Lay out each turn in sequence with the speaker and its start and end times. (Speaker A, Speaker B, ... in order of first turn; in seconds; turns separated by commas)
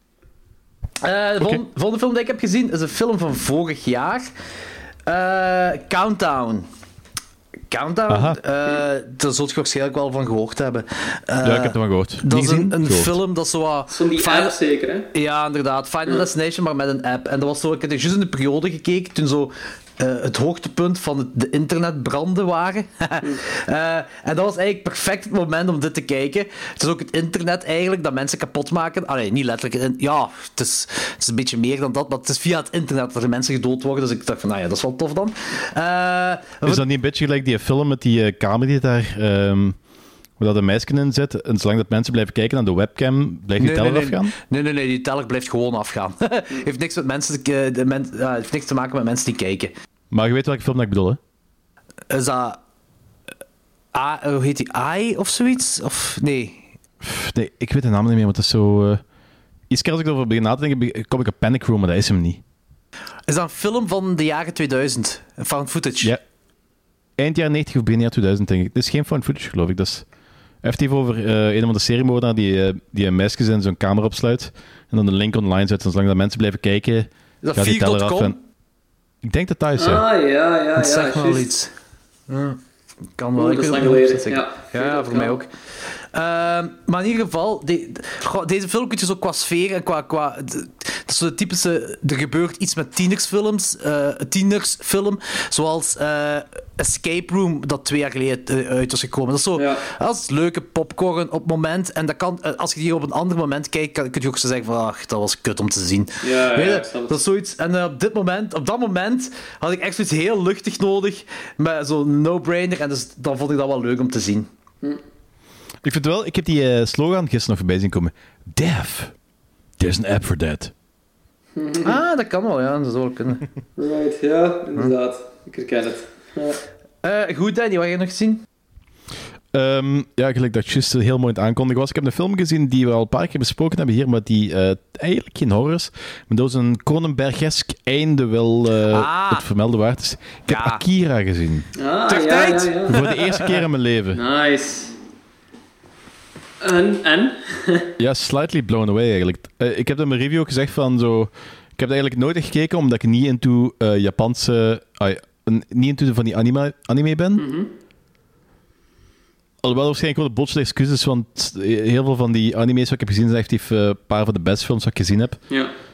Speaker A: 1.0-4.3, Speaker A: 5.1-6.7, Speaker A: 7.7-14.6, Speaker B: 8.1-8.4, Speaker B: 11.4-13.2, Speaker C: 13.9-15.1, Speaker A: 15.1-36.8, Speaker B: 36.6-39.8, Speaker B: 40.4-44.3, Speaker A: 43.6-49.7, Speaker B: 50.1-51.2, Speaker A: 52.1-52.6, Speaker A: 53.9-56.7, Speaker B: 57.0-59.0, Speaker B: 59.7-62.4, Speaker A: 63.3-66.2, Speaker B: 67.2-70.0, Speaker B: 70.6-78.4, Speaker A: 77.4-78.4, Speaker B: 79.2-80.1, Speaker C: 79.8-81.5, Speaker A: 80.8-81.7, Speaker A: 82.3-82.6, Speaker A: 83.2-114.5, Speaker C: 83.4-85.4, Speaker C: 99.6-99.8, Speaker C: 106.2-107.2, Speaker B: 115.8-119.1, Speaker B: 119.8-120.7, Speaker C: 121.5-122.0, Speaker A: 121.8-123.5, Speaker C: 123.8-126.6, Speaker A: 127.0-128.4, Speaker B: 129.5-141.7, Speaker A: 138.9-139.4, Speaker A: 140.5-140.8, Speaker C: 141.8-143.0, Speaker A: 142.1-143.5, Speaker B: 142.9-144.2, Speaker C: 144.1-144.9, Speaker C: 146.6-147.9, Speaker B: 148.0-157.4, Speaker C: 157.4-157.7, Speaker B: 159.6-165.4